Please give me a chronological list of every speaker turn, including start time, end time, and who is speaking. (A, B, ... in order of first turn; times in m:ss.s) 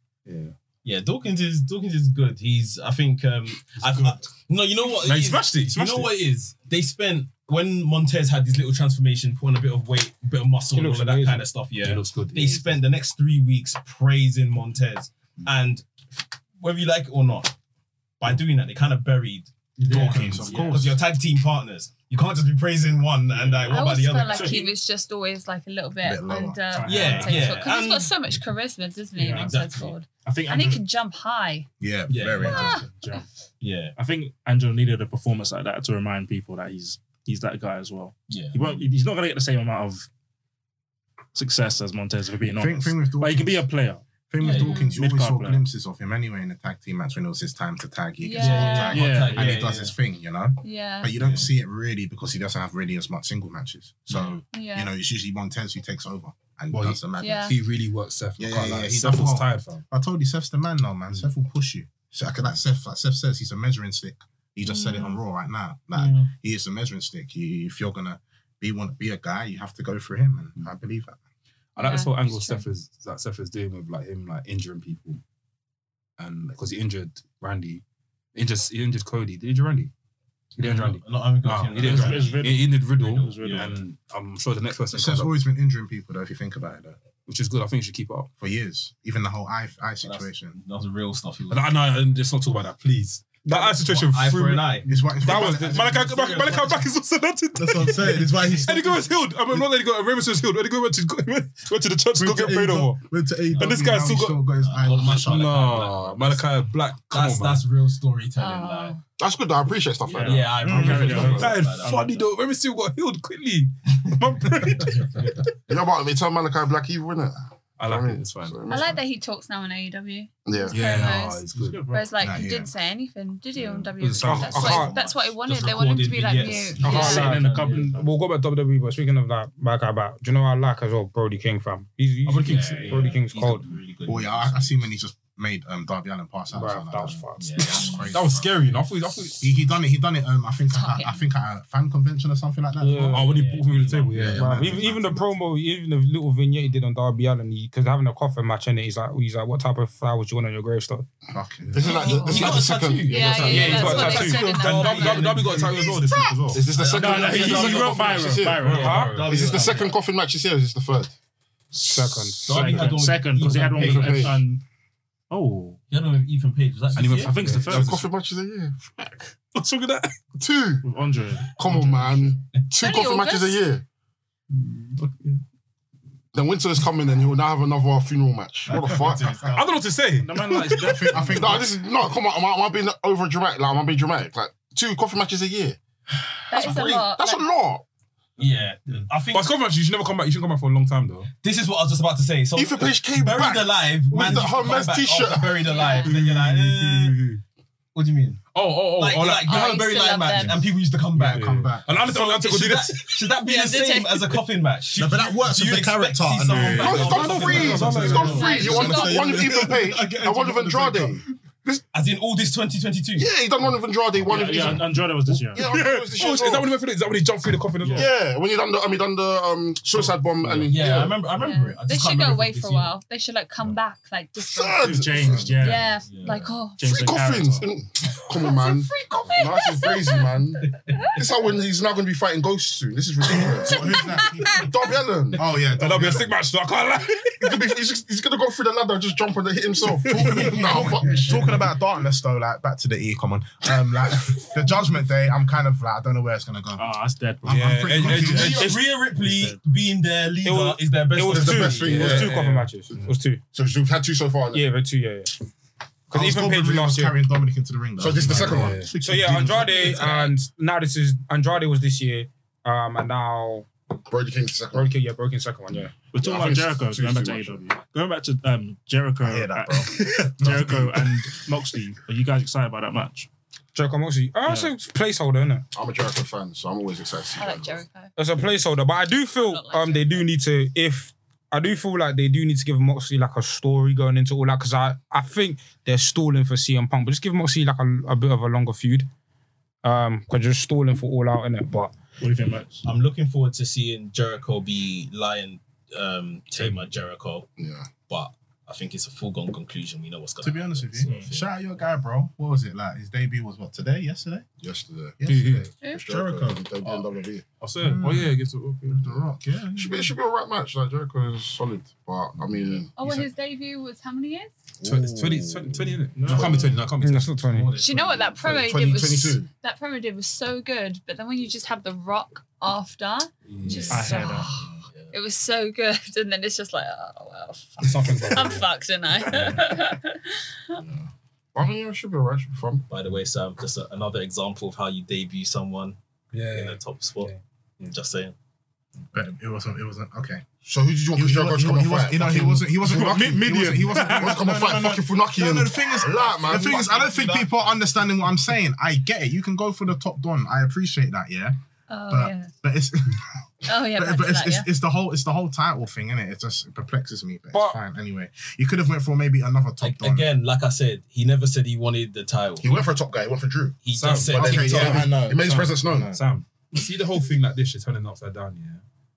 0:00.3-0:00.5 A
0:00.8-0:15.9 B
0:03.8-0:04.2 A
0:05.0-0:06.1 A
0:10.7-0:11.5 C
0:11.8-0:12.8 A
0:16.6-0:17.5 B
0:18.2-0:24.6 B
0:19.9-0:21.0 D
0:19.9-0:20.5 A
0:19.9-0:20.8 E
0:23.3-0:24.7 E
0:23.6-0:31.7 F
0:26.0-0:26.6 D
0:26.7-0:27.6 E
0:26.8-0:28.1 B
0:29.2-0:30.8 E
0:29.3-0:30.0 B
0:31.8-0:32.8 D
0:32.1-0:32.7 B
0:32.3-0:33.3 E
0:32.4-0:33.2 F
0:33.6-0:33.9 B
0:33.9-0:40.1 E
0:38.3-0:38.8 B
0:41.3-0:45.7 E
0:42.6-0:43.6 D
0:44.3-0:57.6 D
0:44.4-0:44.9 B
0:44.5-0:45.0 F
0:48.2-0:49.0 F
0:48.4-0:49.9 B
0:48.9-0:49.6 E
0:50.6-0:51.1 F
0:51.2-0:51.5 B
0:54.1-0:54.4 B
0:54.5-0:54.9 F
0:56.7-0:59.8 A
0:57.2-0:57.6 F
0:58.4-1:11.2 D
1:04.6-1:05.2 F
1:05.9-1:06.3 B
1:11.8-1:12.6 F
1:11.8-1:15.2 A
1:16.2-1:17.8 A
1:18.3-1:19.9 A
1:20.6-1:23.8 B
1:20.6-1:25.4 A
1:21.7-1:23.8 E
1:24.9-1:27.0 D
1:27.2-1:28.3 A
1:28.4-1:30.6 D
1:30.0-1:31.7 B
1:31.5-1:43.0 A
1:33.4-1:33.8 C
1:33.5-1:36.8 B
1:34.9-1:36.4 D
1:37.6-1:39.1 D
1:42.2-1:45.6 D
1:43.5-1:44.4 A
1:44.6-1:46.5 B
1:45.0-1:47.6 A
1:47.1-1:49.0 B
1:48.4-1:49.0 F
1:49.2-1:51.3 G
1:50.1-1:51.6 E
1:50.1-1:52.2 B
1:50.2-1:55.4 A
1:50.6-1:51.1 D
1:54.1-1:55.2 B
1:55.7-1:59.0 G
1:57.8-1:58.6 A
1:58.7-2:07.4 F
2:00.4-2:00.8 G
2:00.7-2:01.8 A
2:01.5-2:02.2 E
2:02.2-2:02.7 D
2:04.0-2:04.9 A
2:04.2-2:08.1 B
2:04.2-2:04.9 C
2:06.8-2:13.7 C
2:06.9-2:07.9 E
2:12.2-2:14.8 B
2:12.4-2:13.0 A
2:12.4-2:13.0 E
2:14.0-2:18.6 D
2:16.5-2:17.7 C
2:17.4-2:18.0 B
2:17.9-2:19.5 A
2:19.4-2:23.3 D
2:20.7-2:21.2 F
2:22.8-2:23.2 C
2:22.9-2:24.8 A
2:23.1-2:24.6 B
2:24.3-2:25.3 D
2:24.4-2:31.1 C
2:31.3-2:32.1 D
2:31.7-2:34.0 G
2:31.8-2:32.5 F
2:32.0-2:40.0 B
2:33.0-2:35.4 F
2:33.4-2:36.7 A
2:33.6-2:34.5 C
2:36.5-2:41.1 G
2:36.9-2:39.3 E
2:37.4-2:39.6 A
2:38.8-2:39.1 C
2:41.7-2:44.6 E
2:41.8-2:42.9 C
2:42.4-2:44.4 B
2:43.8-2:44.4 G
2:45.3-2:45.8 E
2:45.9-2:47.5 B
2:46.9-2:48.0 A
2:47.2-2:48.0 E
2:47.7-2:49.3 G
2:49.5-2:50.1 A
2:50.4-2:50.8 G
2:50.8-2:51.5 E
2:51.5-2:53.8 G
2:52.8-2:53.6 F
2:54.5-2:55.4 A
2:56.3-2:59.5 G
2:58.7-2:59.8 B
2:59.5-3:01.6 A
3:00.2-3:01.5 E
3:00.8-3:01.7 D
3:01.4-3:05.8 G
3:06.5-3:07.4 F
3:06.5-3:07.8 G
3:08.4-3:09.6 B
3:09.3-3:11.3 A
3:11.4-3:17.2 B
3:12.5-3:15.7 G
3:15.6-3:16.1 F
3:16.0-3:17.4 A
3:17.9-3:28.9 B
3:18.5-3:20.6 A
3:19.4-3:20.6 F
3:21.2-3:23.3 A
3:21.2-3:22.0 D
3:23.4-3:24.4 F
3:25.0-3:31.2 D
3:26.5-3:28.6 A
3:26.8-3:31.8 G
3:28.1-3:29.4 F
3:31.9-3:33.3 B
3:33.2-3:36.7 G
3:34.2-3:36.1 E
3:34.3-3:34.8 B
3:35.6-3:38.1 A
3:37.8-3:38.1 E
3:37.9-3:41.2 G
3:40.0-3:40.6 A
3:40.6-3:42.9 B
3:41.4-3:47.1 F
3:44.4-3:45.7 G
3:44.8-3:45.9 E
3:45.8-3:46.6 B
3:46.8-3:47.7 E
3:46.8-3:54.0 G
3:48.4-3:51.2 F
3:50.7-3:51.1 B
3:53.5-3:54.5 D
3:53.6-3:54.7 F
3:54.5-3:55.5 G
3:55.3-3:56.3 D
3:55.7-3:57.6 A
3:57.4-4:01.5 G
4:00.1-4:06.9 D
4:00.3-4:01.2 B
4:06.8-4:09.6 E
4:07.4-4:08.7 D
4:07.4-4:08.8 A
4:08.2-4:12.2 B
4:10.4-4:13.4 C
4:11.3-4:14.7 G
4:11.9-4:12.7 A
4:14.5-4:15.3 C
4:16.1-4:17.2 C
4:16.1-4:20.0 D
4:18.0-4:18.9 G
4:18.2-4:19.7 A
4:18.9-4:23.7 C
4:20.0-4:20.2 B
4:24.0-4:25.0 G
4:24.7-4:26.0 C
4:26.0-4:33.3 E
4:26.2-4:27.6 G
4:29.2-4:31.1 D
4:33.7-4:35.6 C
4:34.4-4:34.7 E
4:35.7-4:37.8 G
4:37.4-4:38.1 F
4:38.2-4:49.1 C
4:39.3-4:40.3 F
4:49.8-4:51.9 C
4:52.2-4:52.9 E
4:52.8-5:01.5 B
4:56.6-4:56.9 A
4:57.6-4:57.9 G
5:00.4-5:04.4 D
5:01.0-5:01.3 E
5:04.6-5:07.4 G
5:05.2-5:06.6 D
5:05.2-5:05.6 A
5:07.6-5:09.1 A
5:07.8-5:08.3 D
5:09.0-5:12.9 G
5:09.0-5:10.1 D
5:13.0-5:14.5 F
5:13.0-5:13.3 D
5:14.8-5:17.4 A
5:14.9-5:15.6 D
5:16.1-5:16.8 E
5:16.3-5:16.7 G
5:16.4-5:16.7 B
5:17.0-5:17.7 C
5:17.4-5:18.7 B
5:17.8-5:30.8 F
5:18.4-5:19.5 G
5:23.5-5:24.3 A
5:23.9-5:24.5 E
5:24.5-5:25.2 B
5:27.8-5:28.7 A
5:29.3-5:29.6 A
5:31.5-5:32.9 G
5:32.9-5:38.3 B
5:36.3-5:37.4 A
5:39.1-5:40.4 D
5:40.6-5:43.4 G
5:41.1-5:51.6 D
5:42.9-5:44.3 C
5:44.0-5:47.5 G
5:51.9-5:52.5 F
5:52.1-6:00.3 D
5:53.6-5:54.7 F
5:57.5-5:57.8 C
5:59.8-6:02.7 B
6:02.6-6:03.8 G
6:03.8-6:05.1 B
6:03.9-6:08.8 A
6:04.3-6:06.3 D
6:04.4-6:06.1 G